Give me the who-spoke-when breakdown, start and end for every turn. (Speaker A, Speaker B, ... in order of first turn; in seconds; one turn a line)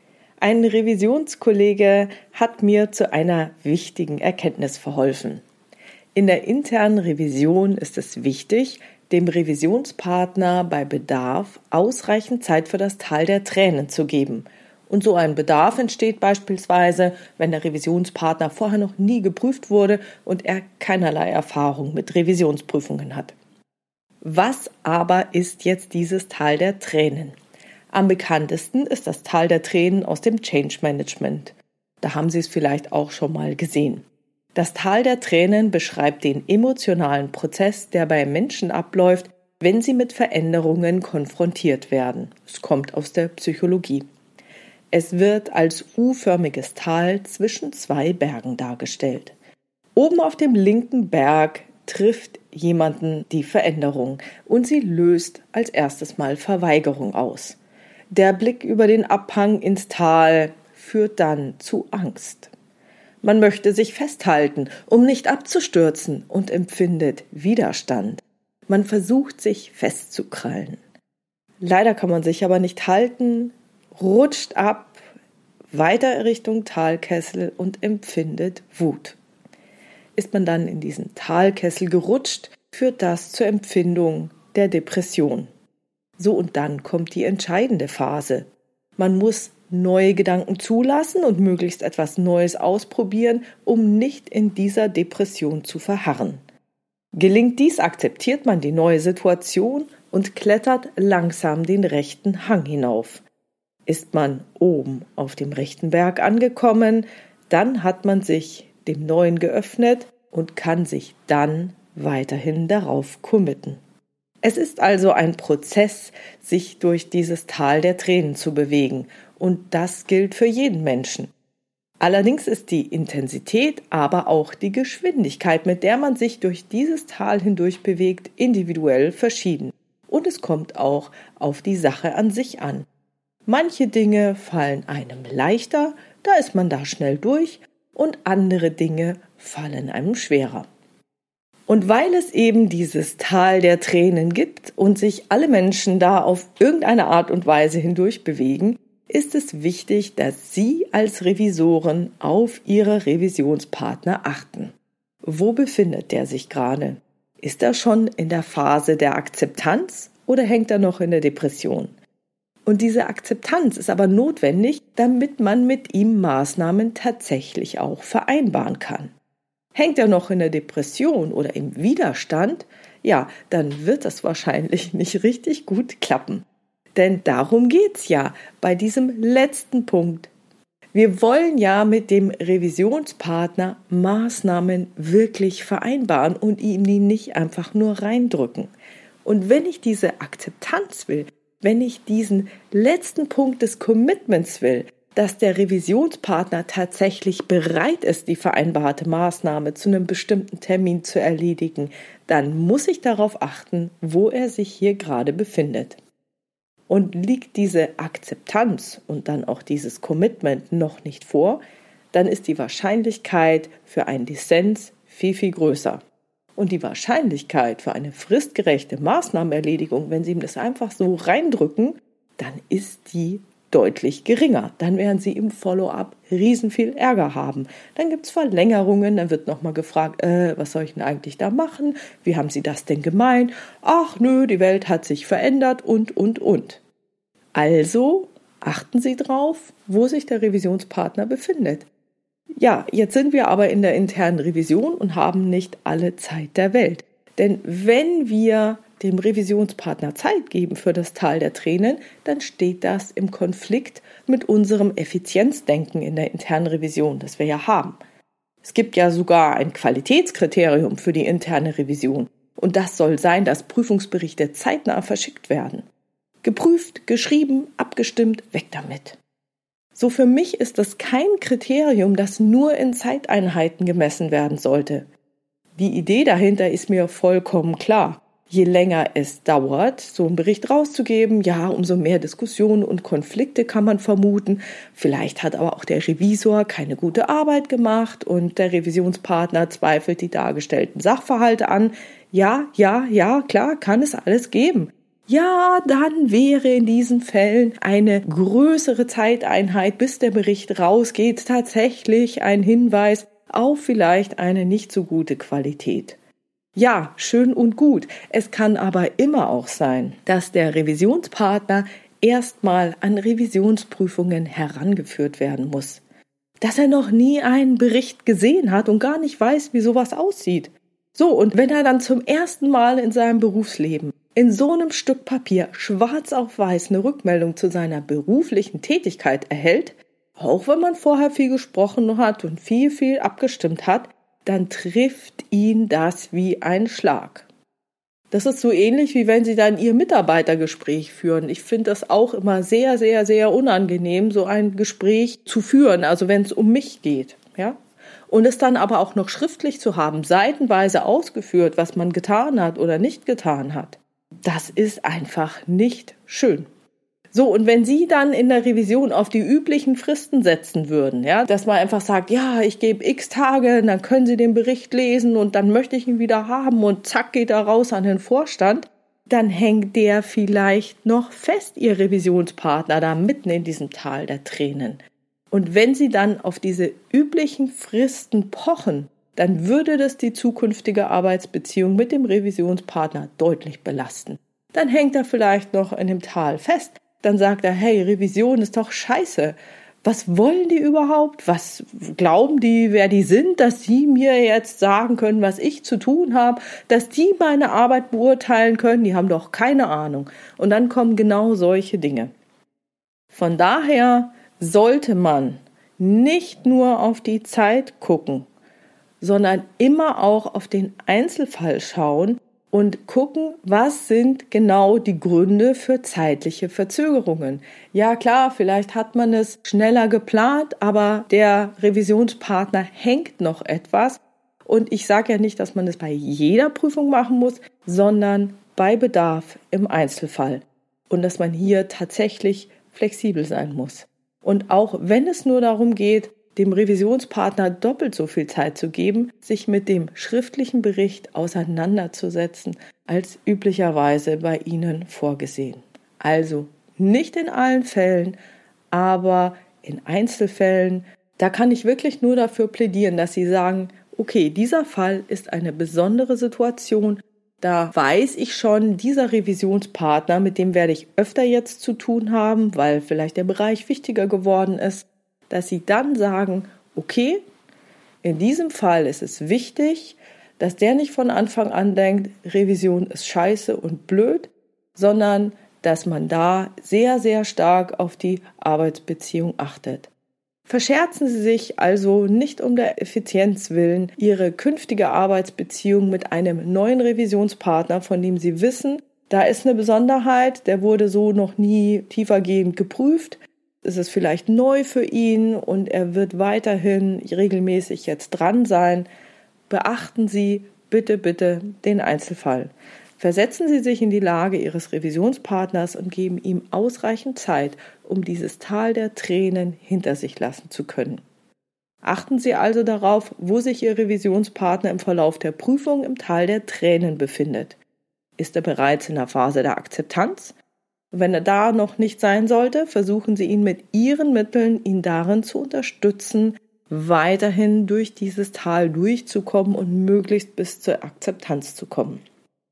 Speaker A: 0.4-5.4
Speaker A: 6.2-23.3
Speaker A: 24.2-27.4
Speaker A: 27.9-44.0
Speaker A: 44.9-49.3
Speaker A: 50.0-57.6
Speaker A: 58.1-62.5
Speaker A: 63.2-70.8
Speaker A: 71.6-75.0
Speaker A: 75.7-79.2
Speaker A: 80.2-85.5
Speaker A: 86.2-96.4
Speaker A: 97.1-103.2
Speaker A: 103.9-113.8
Speaker A: 114.4-121.3
Speaker A: 122.0-132.9
Speaker A: 133.5-140.7
Speaker A: 141.7-161.9
Speaker A: 162.7-169.2
Speaker A: 169.7-180.3
Speaker A: 180.9-188.7
Speaker A: 189.2-206.0
Speaker A: 206.9-211.6
Speaker A: 212.1-216.0
Speaker A: 216.6-236.8
Speaker A: 237.6-241.9
Speaker A: 242.6-258.0
Speaker A: 258.6-265.9
Speaker A: 266.4-269.2
Speaker A: 269.9-275.1
Speaker A: 275.8-306.2
Speaker A: 306.8-316.0
Speaker A: 316.6-337.5
Speaker A: 338.3-347.8
Speaker A: 348.3-356.7
Speaker A: 357.3-402.3
Speaker A: 403.3-408.5
Speaker A: 409.2-448.4
Speaker A: 448.9-467.4
Speaker A: 468.2-480.1
Speaker A: 480.7-499.1
Speaker A: 499.7-511.2
Speaker A: 512.0-517.8
Speaker A: 518.4-520.6
Speaker A: 521.1-532.2